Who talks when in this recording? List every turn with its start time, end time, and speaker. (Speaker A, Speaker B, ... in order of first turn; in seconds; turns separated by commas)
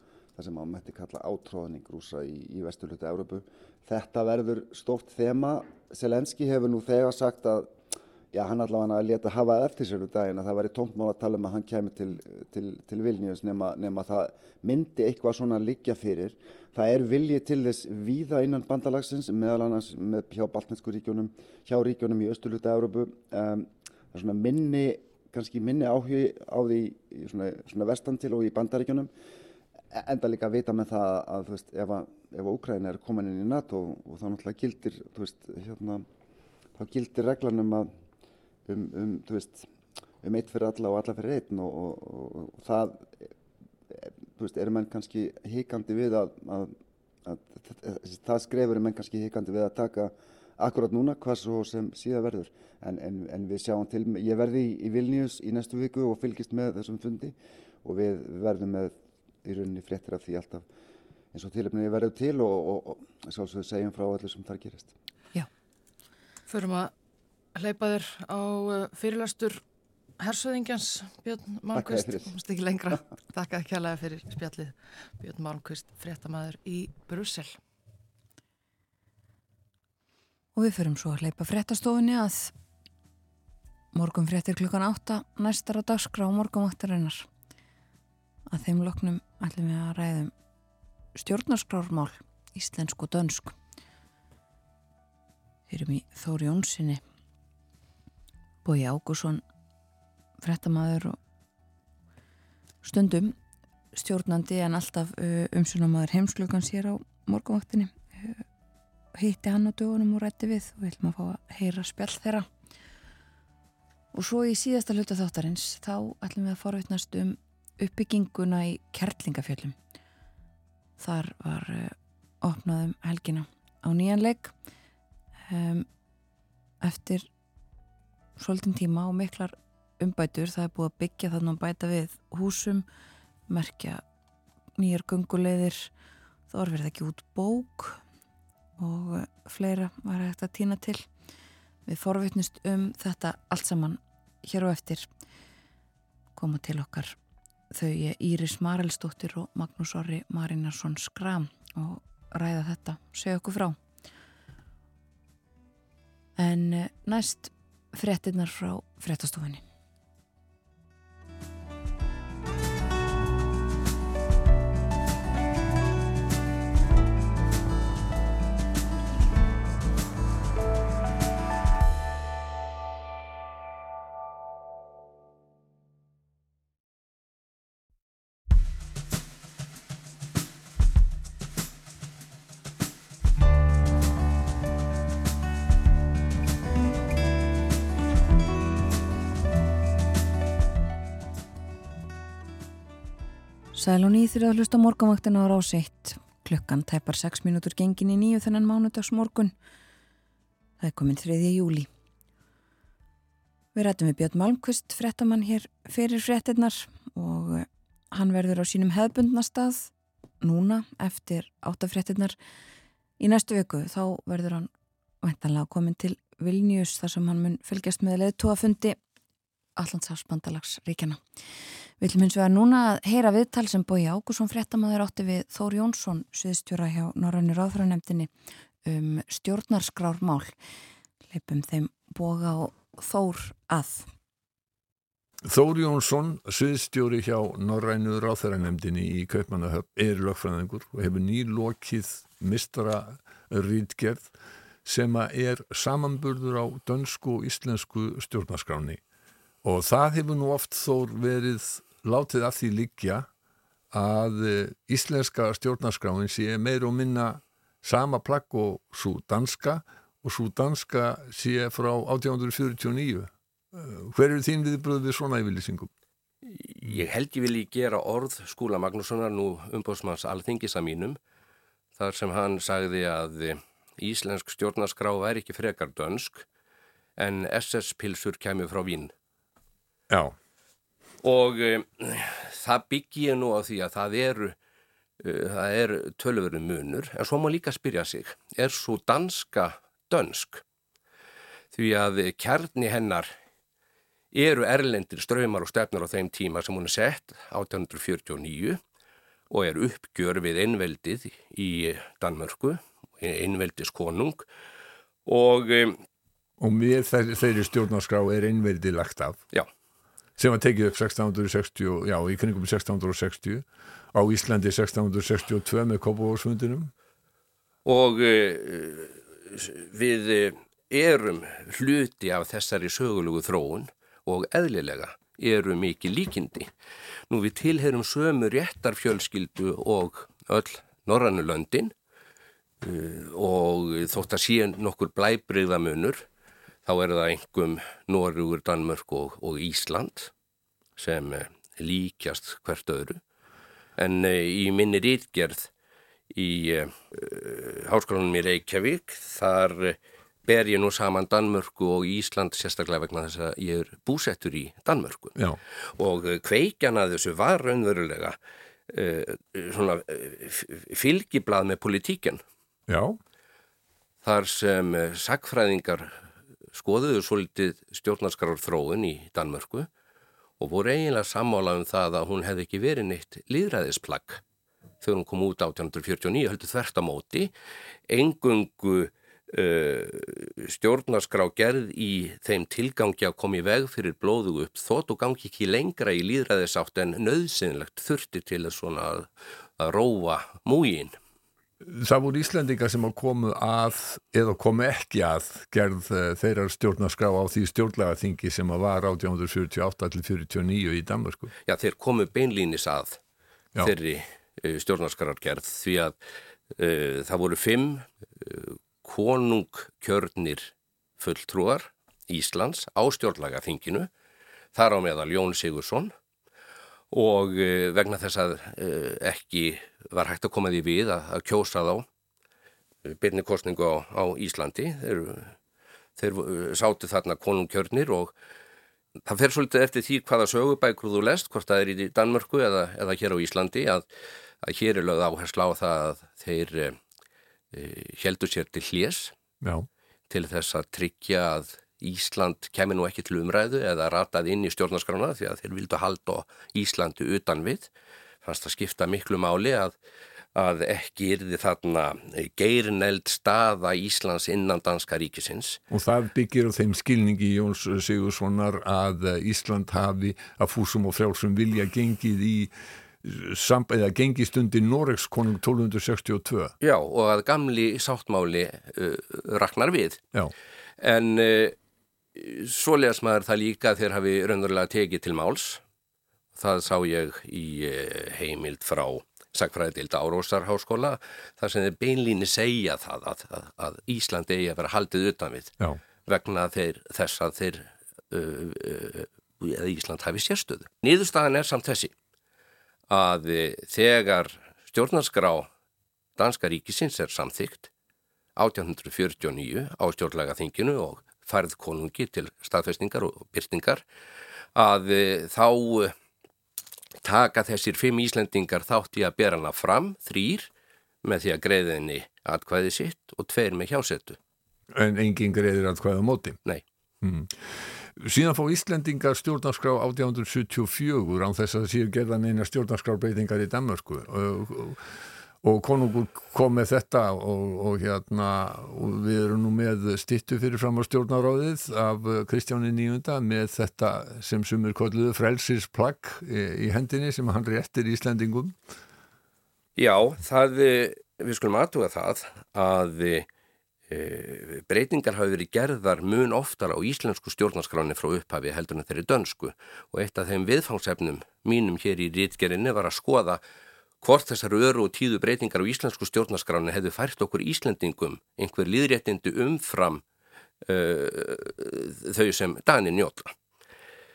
Speaker A: 0.3-7.7, Speaker A: 8.3-29.1, Speaker A: 29.9-36.0, Speaker A: 36.8-37.9, Speaker A: 38.6-39.7, Speaker A: 40.2-43.3, Speaker A: 43.9-46.7, Speaker A: 47.2-60.6, Speaker A: 61.3-64.9, Speaker B: 66.5-66.9, Speaker B: 67.5-69.6, Speaker B: 70.2-77.6, Speaker A: 71.7-72.3, Speaker C: 80.5-82.5, Speaker C: 83.9-87.3, Speaker C: 88.5-90.3, Speaker C: 91.1-93.5, Speaker C: 95.7-97.0, Speaker C: 98.6-99.4, Speaker C: 100.4-101.2, Speaker C: 102.8-103.3, Speaker C: 103.9-108.4, Speaker C: 109.1-112.5, Speaker C: 114.1-119.8, Speaker C: 121.0-124.5, Speaker C: 125.5-125.9, Speaker C: 126.8-127.3, Speaker C: 128.4-132.8, Speaker C: 133.5-134.0, Speaker C: 134.8-135.9, Speaker C: 136.5-138.0, Speaker C: 138.8-141.1, Speaker C: 141.8-145.1, Speaker C: 146.3-147.2, Speaker C: 147.7-153.8, Speaker C: 156.4-159.6, Speaker C: 193.7-199.5, Speaker C: 200.8-201.9, Speaker C: 203.7-212.3, Speaker C: 213.2-214.7, Speaker C: 215.2-219.0, Speaker C: 219.8-221.2, Speaker C: 222.0-228.3, Speaker C: 228.8-230.5, Speaker C: 231.3-234.1, Speaker D: 235.4-244.3, Speaker D: 244.8-249.0, Speaker D: 249.6-253.3, Speaker D: 253.9-265.9, Speaker E: 266.4-271.2, Speaker E: 271.9-276.4, Speaker E: 277.2-279.1, Speaker D: 280.1-280.4, Speaker E: 281.2-284.6, Speaker E: 285.2-290.6, Speaker E: 291.7-293.3, Speaker E: 294.3-298.8, Speaker E: 299.5-304.5, Speaker E: 305.2-306.0, Speaker D: 306.6-309.4, Speaker D: 310.4-316.9, Speaker E: 317.8-326.7, Speaker E: 327.3-331.9, Speaker E: 332.8-336.2, Speaker E: 336.8-340.3, Speaker E: 341.0-343.2, Speaker E: 344.0-345.7, Speaker E: 346.3-355.4, Speaker E: 355.9-358.4, Speaker E: 358.9-362.4, Speaker D: 362.9-363.2, Speaker E: 364.2-366.2, Speaker E: 366.7-369.9, Speaker E: 370.6-374.4, Speaker E: 375.0-377.5, Speaker E: 378.1-391.1, Speaker D: 391.8-401.5, Speaker E: 401.6-403.2, Speaker E: 403.8-406.2, Speaker E: 406.7-414.1, Speaker E: 414.7-416.1, Speaker E: 417.1-422.1, Speaker E: 423.0-425.6, Speaker E: 426.2-428.3, Speaker E: 429.2-434.1, Speaker E: 434.6-437.0, Speaker E: 437.7-439.3, Speaker D: 439.6-439.9, Speaker E: 440.3-447.9, Speaker E: 448.4-449.9, Speaker E: 450.5-455.8, Speaker D: 455.9-466.7, Speaker E: 466.8-470.2, Speaker E: 471.0-471.8, Speaker E: 472.3-475.8, Speaker E: 476.5-492.1, Speaker E: 493.1-495.7, Speaker E: 496.4-497.9, Speaker E: 498.6-504.0, Speaker E: 504.7-506.1, Speaker E: 507.2-510.7, Speaker E: 511.2-514.4, Speaker D: 514.9-516.6, Speaker D: 517.2-525.0, Speaker D: 525.6-538.8, Speaker E: 540.0-543.5, Speaker E: 544.1-553.6, Speaker E: 554.2-560.2, Speaker E: 560.8-563.5